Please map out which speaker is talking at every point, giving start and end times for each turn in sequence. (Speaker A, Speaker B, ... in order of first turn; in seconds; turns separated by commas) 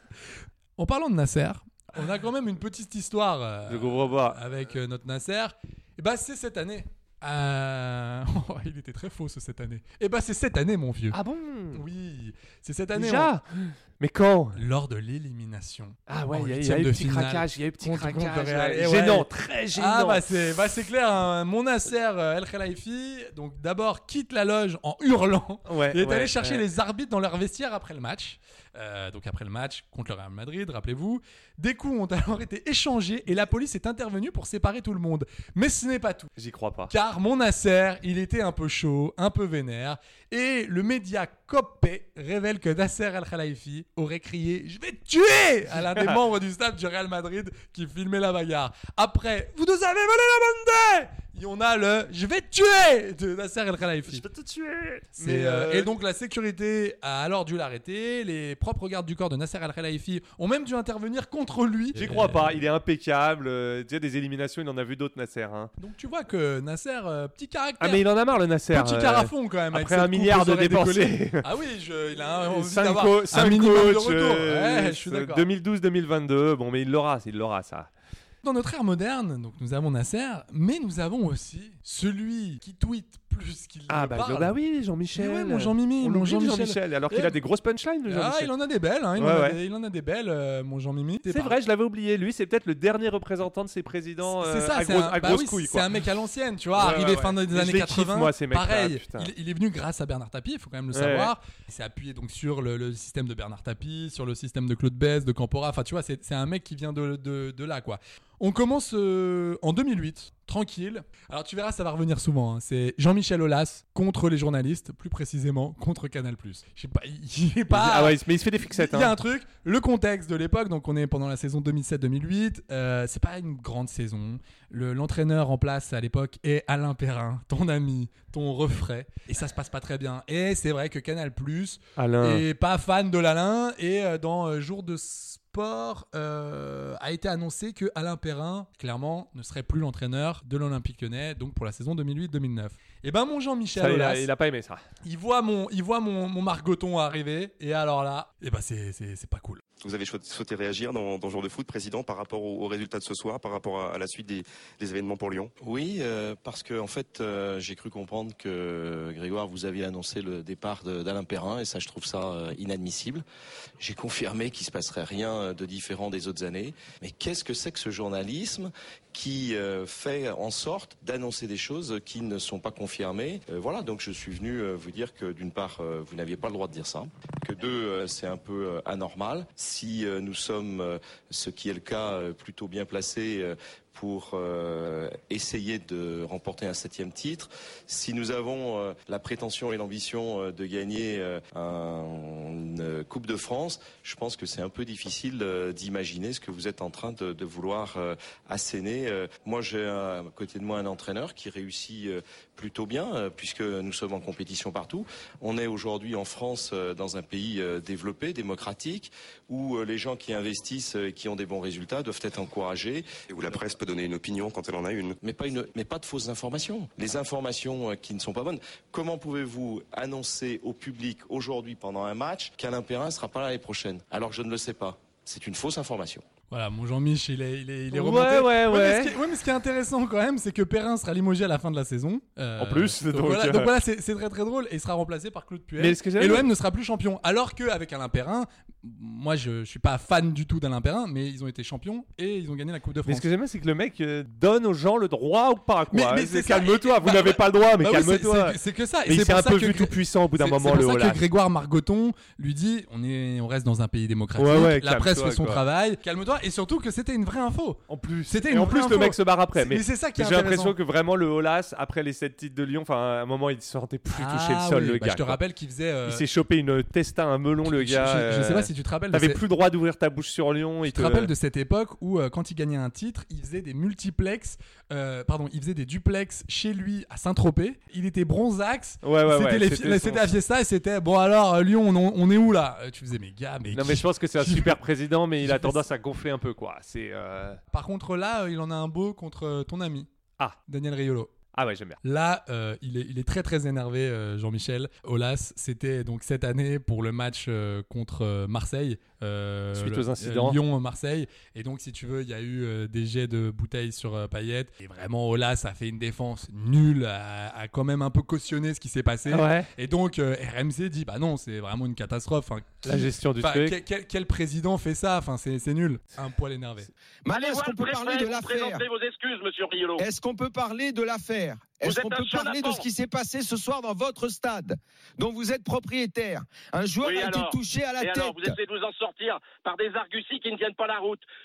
Speaker A: 0.8-11.2, Speaker B: 3.7-4.4, Speaker B: 11.1-11.8, Speaker A: 11.7-13.3, Speaker B: 12.9-14.6, Speaker A: 14.6-36.3, Speaker B: 16.1-20.2, Speaker B: 25.7-26.6, Speaker B: 36.4-36.9, Speaker A: 36.9-54.2, Speaker B: 45.8-46.2, Speaker B: 54.1-55.9, Speaker A: 55.2-62.6, Speaker B: 62.0-65.7, Speaker A: 65.8-68.1, Speaker B: 67.8-71.5, Speaker A: 68.7-75.5, Speaker B: 72.5-77.9, Speaker A: 78.4-84.6, Speaker B: 83.9-88.5, Speaker A: 85.1-87.4, Speaker A: 88.1-91.6, Speaker B: 89.2-89.6, Speaker B: 91.3-95.9, Speaker A: 94.2-144.3, Speaker B: 96.8-99.3, Speaker B: 100.9-101.3, Speaker B: 117.7-119.1, Speaker B: 132.0-132.4, Speaker B: 143.8-144.8, Speaker A: 145.0-149.6, Speaker C: 149.8-155.5, Speaker D: 155.6-163.2, Speaker D: 163.8-213.6, Speaker C: 213.3-215.2, Speaker D: 215.2-226.3, Speaker A: 226.5-243.3, Speaker B: 227.9-229.1, Speaker B: 232.6-233.7, Speaker B: 235.8-236.5, Speaker B: 243.1-251.2, Speaker A: 245.9-260.8, Speaker B: 254.4-255.6, Speaker B: 257.9-265.4, Speaker A: 264.1-266.2, Speaker B: 266.1-271.3, Speaker A: 267.6-269.4, Speaker A: 270.9-284.8, Speaker B: 279.0-280.3, Speaker B: 283.7-287.6, Speaker A: 285.4-285.8, Speaker A: 287.7-290.1, Speaker A: 290.7-291.3, Speaker B: 291.5-292.0, Speaker A: 292.0-316.9, Speaker B: 299.7-300.6, Speaker B: 309.3-309.7, Speaker B: 312.8-313.8, Speaker E: 317.3-318.8, Speaker F: 317.3-320.1, Speaker E: 320.0-328.6, Speaker F: 321.8-322.9, Speaker F: 327.0-331.2